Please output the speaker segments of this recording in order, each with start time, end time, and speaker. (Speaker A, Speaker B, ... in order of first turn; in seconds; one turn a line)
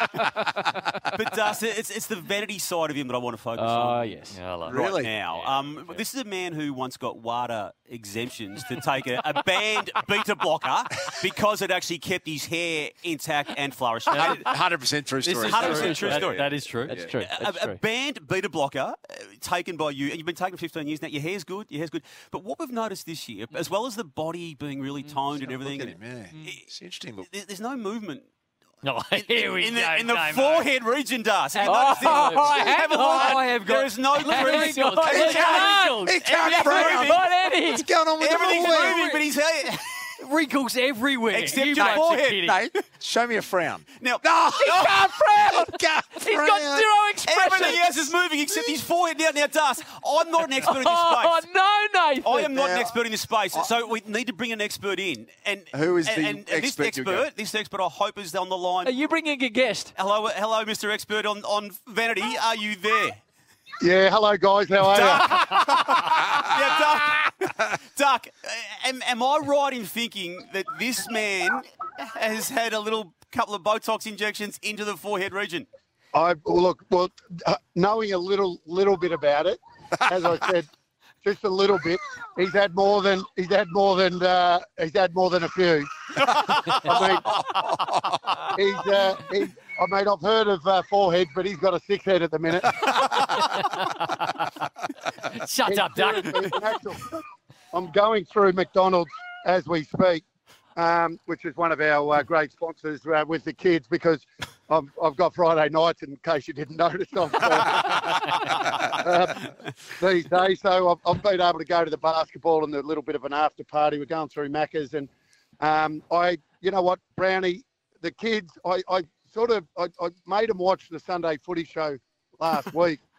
Speaker A: 1.1-14.6
Speaker B: 3.6-4.4
Speaker C: 4.3-6.0
Speaker D: 4.7-5.1
Speaker C: 14.1-14.4
Speaker D: 14.2-17.1
Speaker C: 15.2-17.0
Speaker A: 15.4-28.3
Speaker B: 16.9-17.8
Speaker D: 25.3-27.3
Speaker C: 28.8-30.7
Speaker A: 29.1-37.3
Speaker C: 31.5-35.8
Speaker B: 31.6-33.4
Speaker B: 34.2-37.9
Speaker D: 35.2-39.0
Speaker A: 38.2-40.1
Speaker C: 38.5-39.2
Speaker C: 40.2-42.6
Speaker A: 41.3-42.8
Speaker D: 42.5-46.9
Speaker A: 44.0-44.9
Speaker B: 44.6-48.7
Speaker A: 47.2-51.5
Speaker B: 50.6-52.8
Speaker A: 52.2-59.0
Speaker D: 55.7-57.3
Speaker B: 58.8-59.9
Speaker A: 59.9-63.2
Speaker E: 63.8-65.9
Speaker A: 64.8-75.7
Speaker E: 76.1-80.7
Speaker E: 81.2-87.4
Speaker A: 86.2-87.5
Speaker D: 87.4-88.2
Speaker E: 88.5-93.2
Speaker C: 93.2-94.4
Speaker C: 95.2-96.5
Speaker E: 95.6-100.2
Speaker E: 100.8-115.1
Speaker E: 115.6-123.0